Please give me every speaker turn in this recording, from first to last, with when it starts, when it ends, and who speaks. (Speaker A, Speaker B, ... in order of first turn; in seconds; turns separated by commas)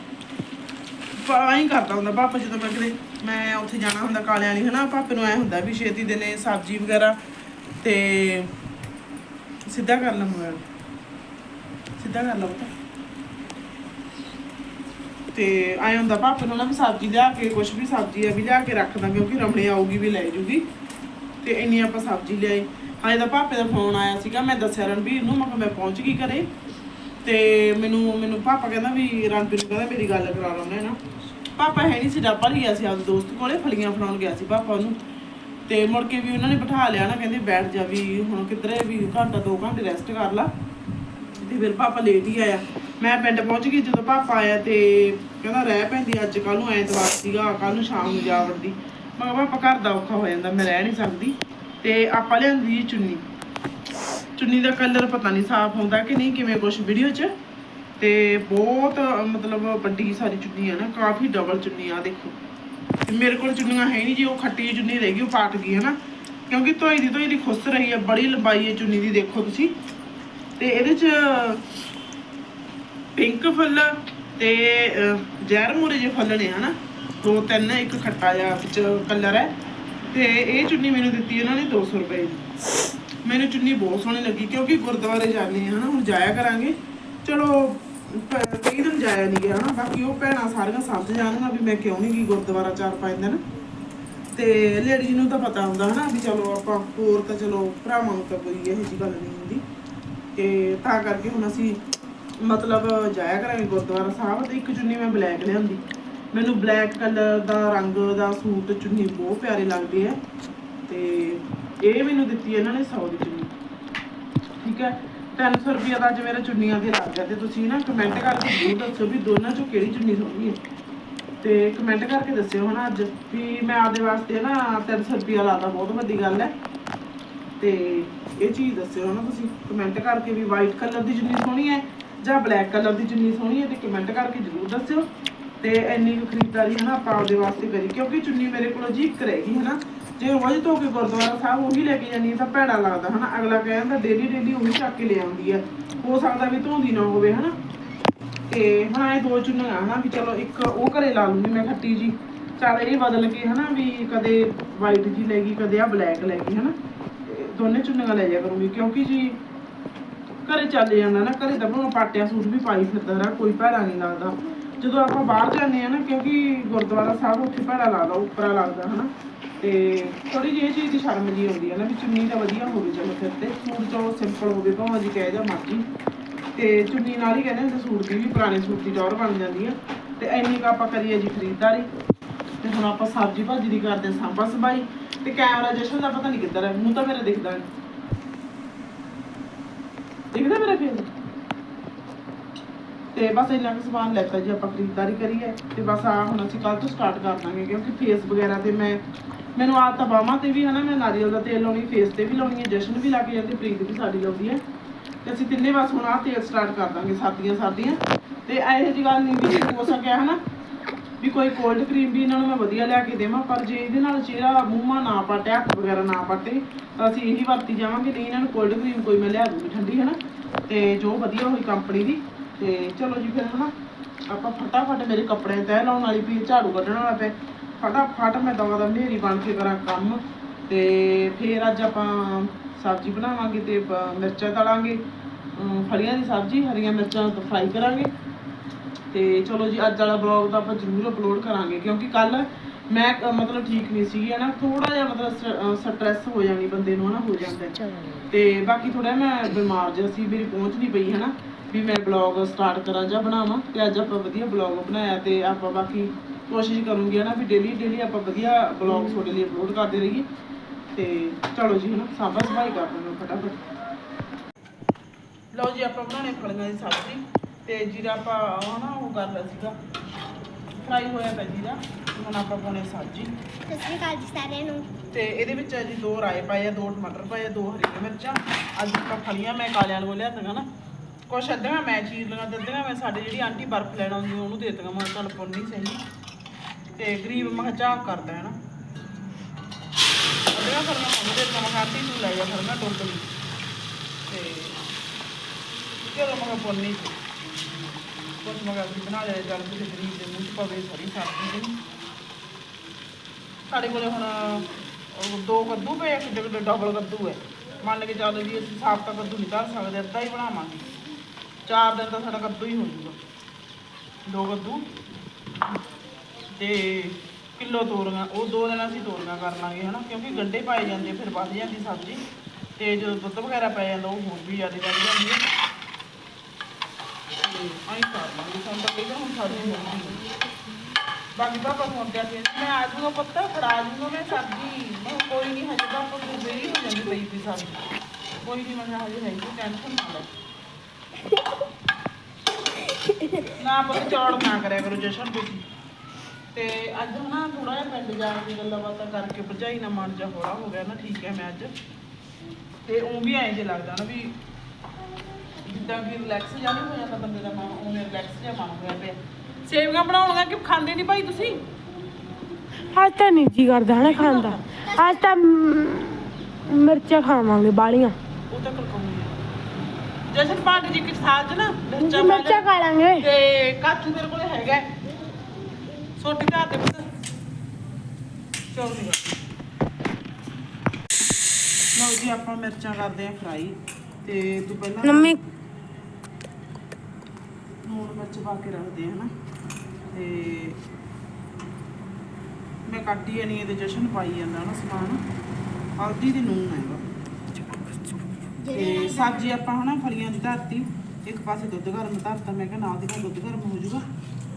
Speaker A: 1.2-7.2, Speaker A: 7.8-8.5, Speaker A: 9.7-10.6, Speaker A: 12.0-12.7, Speaker A: 15.3-20.7, Speaker A: 21.4-26.5, Speaker A: 27.2-31.0, Speaker A: 31.6-35.0, Speaker A: 35.7-40.5, Speaker A: 41.4-53.2, Speaker A: 54.4-57.3, Speaker A: 58.0-62.4, Speaker A: 63.1-66.0, Speaker A: 66.5-69.7, Speaker A: 70.6-71.7, Speaker A: 73.2-79.5, Speaker A: 80.1-82.5, Speaker A: 83.2-93.4, Speaker A: 94.3-99.6, Speaker A: 100.3-101.8, Speaker A: 102.4-105.8, Speaker A: 106.3-110.2, Speaker A: 110.9-113.5, Speaker A: 114.6-120.6, Speaker A: 121.4-126.5, Speaker A: 127.6-135.1, Speaker A: 135.6-147.6, Speaker A: 148.5-159.4, Speaker A: 160.5-175.8, Speaker A: 176.6-181.9, Speaker A: 182.6-187.7, Speaker A: 190.3-191.1, Speaker A: 193.1-199.0, Speaker A: 199.6-204.6, Speaker A: 205.2-210.4, Speaker A: 211.2-223.7, Speaker A: 224.3-235.0, Speaker A: 235.6-238.1, Speaker A: 239.1-247.8, Speaker A: 248.3-260.3, Speaker A: 260.9-263.6, Speaker A: 265.5-269.8, Speaker A: 270.8-273.3, Speaker B: 273.7-274.9, Speaker A: 275.1-280.7, Speaker A: 281.3-286.0, Speaker A: 287.0-288.6, Speaker A: 290.5-293.3, Speaker A: 294.3-294.8, Speaker A: 296.1-297.2, Speaker A: 298.4-301.8, Speaker A: 303.7-310.9, Speaker A: 311.7-313.2, Speaker A: 314.3-314.9, Speaker A: 316.6-322.2, Speaker A: 322.8-325.4, Speaker A: 327.4-330.2, Speaker C: 329.6-330.8, Speaker A: 331.4-337.8, Speaker A: 338.4-340.3, Speaker A: 343.6-345.6, Speaker A: 346.5-351.7, Speaker A: 352.9-354.4, Speaker A: 355.6-361.6, Speaker C: 362.9-368.1, Speaker A: 364.0-364.7, Speaker B: 364.9-365.2, Speaker A: 368.5-369.4, Speaker A: 370.3-375.0, Speaker C: 372.0-373.2, Speaker A: 376.2-377.1, Speaker A: 378.7-379.5, Speaker A: 382.0-385.4, Speaker C: 385.0-385.4, Speaker A: 387.8-389.3, Speaker A: 390.1-390.8, Speaker A: 392.9-395.2, Speaker A: 396.0-397.1, Speaker B: 398.6-399.6, Speaker A: 398.7-404.1